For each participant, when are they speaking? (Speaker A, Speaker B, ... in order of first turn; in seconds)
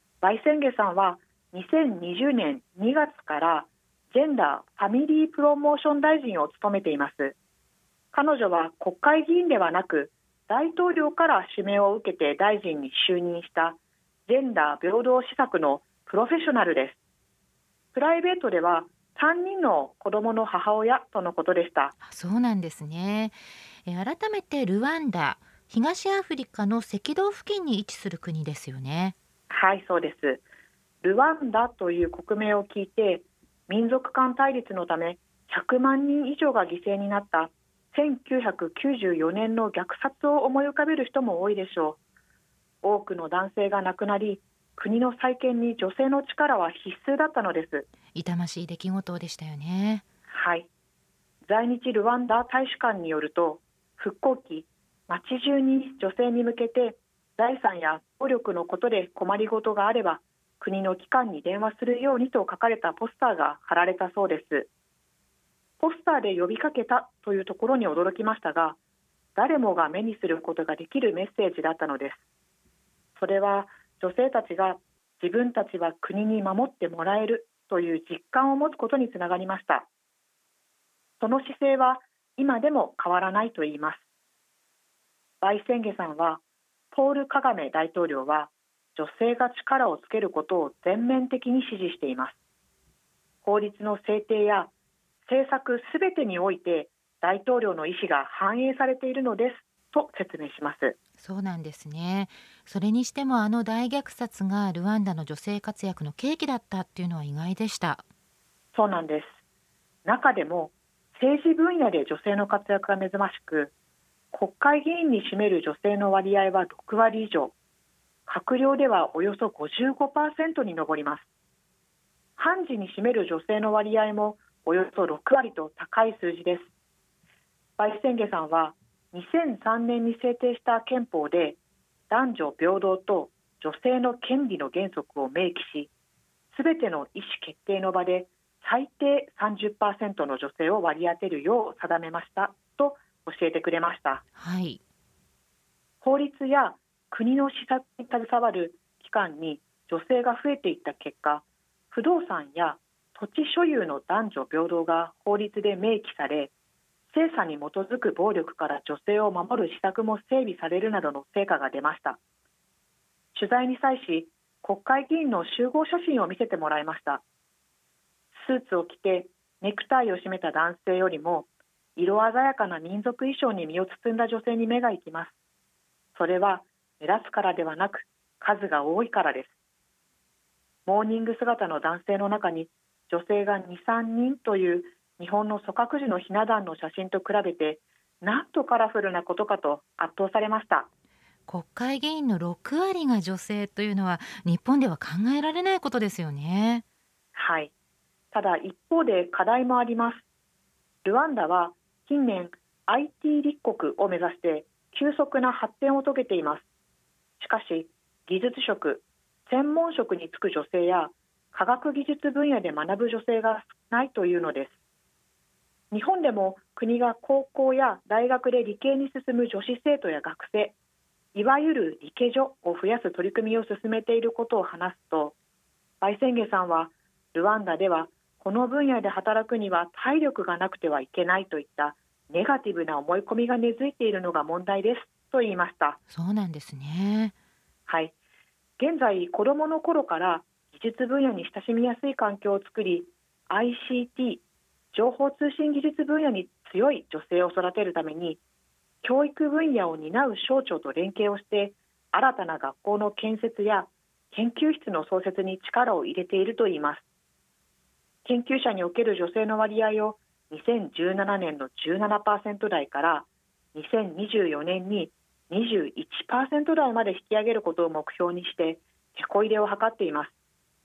Speaker A: 0.2-7.3, 8.1-17.0, 17.9-21.9, 29.5-30.4, 31.0-42.0, 42.8-47.9, 50.3-50.7, 51.5-64.7, 65.8-68.8, 69.4-72.2, 73.2-79.9, 81.2-84.0, 85.4-86.4, 86.9-92.4, 93.4-94.7, 95.3-101.0, 108.7-109.4, 110.0-113.7, 114.3-117.5, 118.3-121.2, 122.4-126.7, 127.8-131.6, 132.1-135.9, 136.5-144.2, 146.0-156.5, 157.1-162.2, 163.3-167.2, 168.3-175.3, 176.2-179.5, 180.8-190.9, 197.3-197.7, 198.3-200.2, 201.0-206.7, 207.4-214.7, 215.9-220.8, 221.3-225.3, 226.0-236.0, 237.9-238.1, 238.8-244.4, 244.9-248.4, 249.0-257.0, 258.2-270.3
Speaker B: 22.0-29.1, 48.1-50.0, 101.2-108.0, 144.4-144.8, 191.5-196.8, 236.1-237.3